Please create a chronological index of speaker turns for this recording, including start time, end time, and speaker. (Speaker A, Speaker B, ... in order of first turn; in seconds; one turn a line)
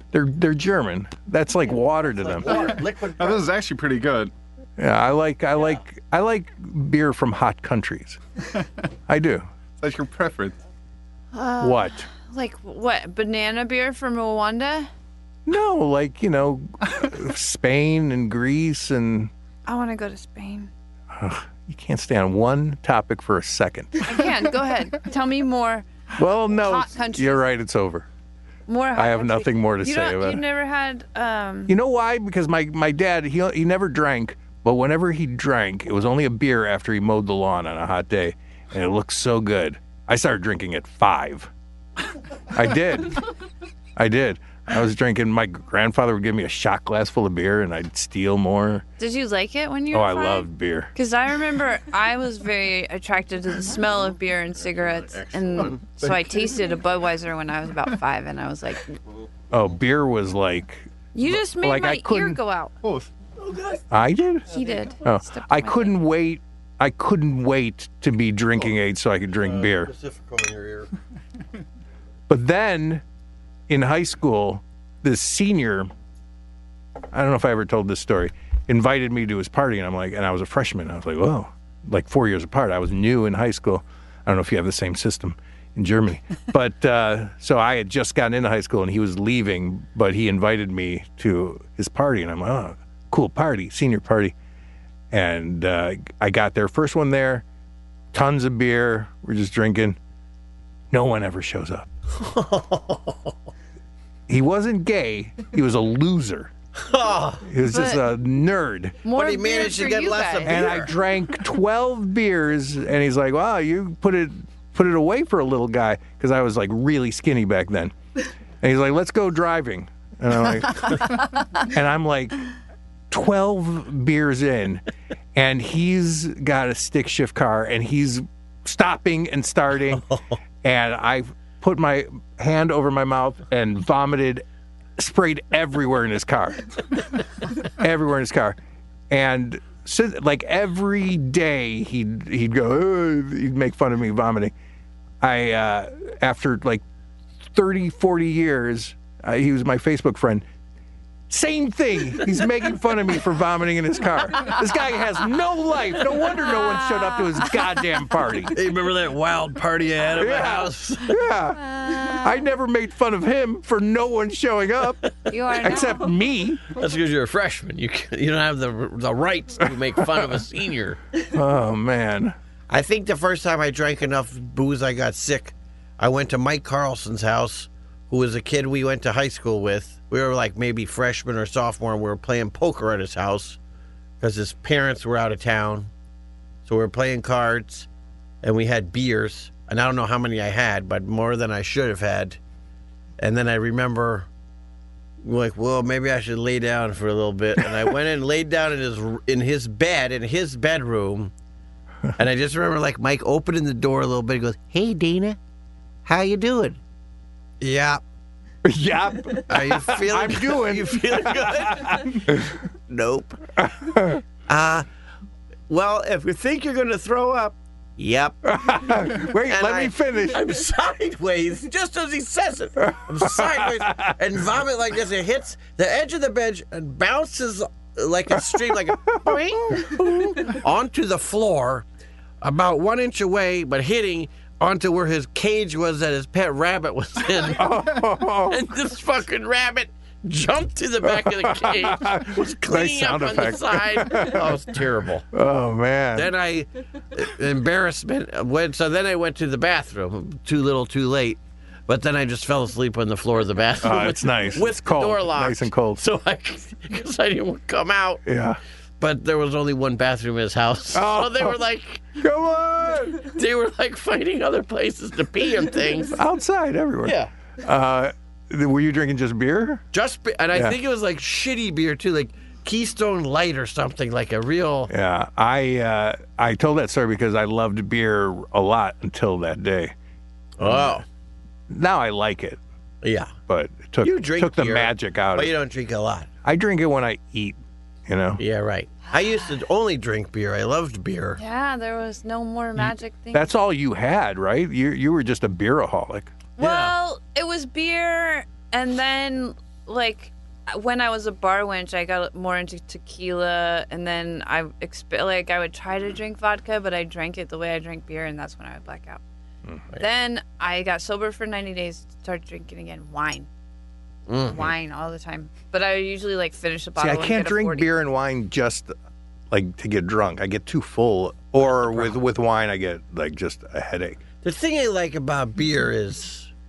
Speaker A: 0.1-2.7
Speaker B: 2.1-3.5
Speaker C: 2.5-4.3
Speaker A: 4.8-8.2
Speaker A: 9.1-9.5
Speaker C: 9.8-10.6
Speaker D: 11.3-14.9
Speaker A: 11.6-12.1
Speaker A: 15.5-19.3
Speaker D: 19.7-20.7
Speaker A: 21.1-24.0
Speaker D: 24.1-25.9
Speaker A: 26.2-28.1
Speaker D: 26.6-27.4
Speaker D: 28.7-31.7
Speaker A: 29.0-30.4
Speaker A: 31.7-41.5
Speaker A: 42.5-43.2
Speaker A: 44.0-48.8
Speaker D: 49.0-59.0
Speaker A: 49.9-50.9
Speaker B: 54.8-55.8
Speaker C: 56.0-56.6
Speaker A: 59.5-62.4
Speaker D: 61.1-62.7
Speaker C: 62.8-63.1
Speaker B: 63.4-63.8
Speaker A: 63.9-64.5
Speaker D: 64.5-66.0
Speaker A: 65.0-69.9
Speaker B: 69.4-70.9
Speaker A: 72.3-73.0
Speaker A: 73.7-75.9
Speaker A: 77.1-94.3
Speaker A: 95.1-97.4
Speaker A: 98.1-100.0
Speaker A: 100.9-101.9
Speaker B: 102.1-103.3
Speaker A: 104.3-106.5
Speaker B: 106.8-107.4
Speaker A: 107.5-109.0
Speaker D: 107.7-108.0
Speaker D: 109.0-110.6
Speaker B: 109.1-110.9
Speaker A: 110.5-117.9
Speaker A: 118.6-122.4
Speaker A: 123.1-124.8
Speaker A: 125.3-130.0
Speaker A: 130.6-134.4
Speaker A: 135.0-136.7
Speaker A: 137.8-138.6
Speaker A: 139.1-144.5
Speaker A: 145.2-146.8
Speaker A: 147.5-150.4
Speaker A: 151.3-158.6
Speaker B: 158.5-161.2
Speaker A: 160.2-166.7
Speaker D: 161.9-162.2
Speaker D: 165.3-166.0
Speaker B: 166.7-171.0
Speaker A: 171.3-172.4
Speaker B: 172.7-183.6
Speaker B: 184.2-185.9
Speaker B: 186.7-187.9
Speaker B: 188.4-192.4
Speaker B: 193.2-194.3
Speaker B: 195.2-201.3
Speaker B: 202.2-205.4
Speaker B: 206.1-206.8
Speaker B: 207.6-208.0
Speaker A: 208.7-212.5
Speaker B: 209.5-212.0
Speaker B: 212.9-213.4
Speaker A: 213.6-214.2
Speaker B: 214.5-214.9
Speaker B: 215.7-218.4
Speaker A: 218.5-220.4
Speaker B: 219.5-231.8
Speaker A: 222.9-223.4
Speaker B: 232.4-237.7
Speaker A: 237.5-238.6
Speaker B: 238.5-245.3
Speaker A: 241.2-244.6
Speaker A: 245.3-246.3
Speaker B: 246.1-258.2
Speaker A: 253.8-256.0
Speaker A: 258.3-258.6
Speaker B: 259.0-262.0
Speaker A: 260.9-261.6
Speaker A: 262.1-263.3
Speaker B: 263.2-266.2
Speaker A: 266.1-269.8
Speaker B: 267.0-267.3
Speaker B: 269.9-274.9
Speaker A: 274.9-279.9
Speaker B: 280.6-281.1
Speaker A: 280.6-281.0
Speaker A: 281.7-282.6
Speaker B: 283.0-283.3
Speaker A: 283.5-285.5
Speaker B: 284.0-286.3
Speaker A: 286.4-288.4
Speaker B: 288.4-291.4
Speaker D: 291.4-293.5
Speaker A: 293.3-296.3
Speaker D: 296.6-309.2
Speaker B: 296.6-296.9
Speaker D: 310.0-313.5
Speaker B: 314.3-314.7
Speaker D: 314.5-317.9
Speaker A: 317.0-318.9
Speaker A: 319.5-324.2
Speaker B: 324.4-326.5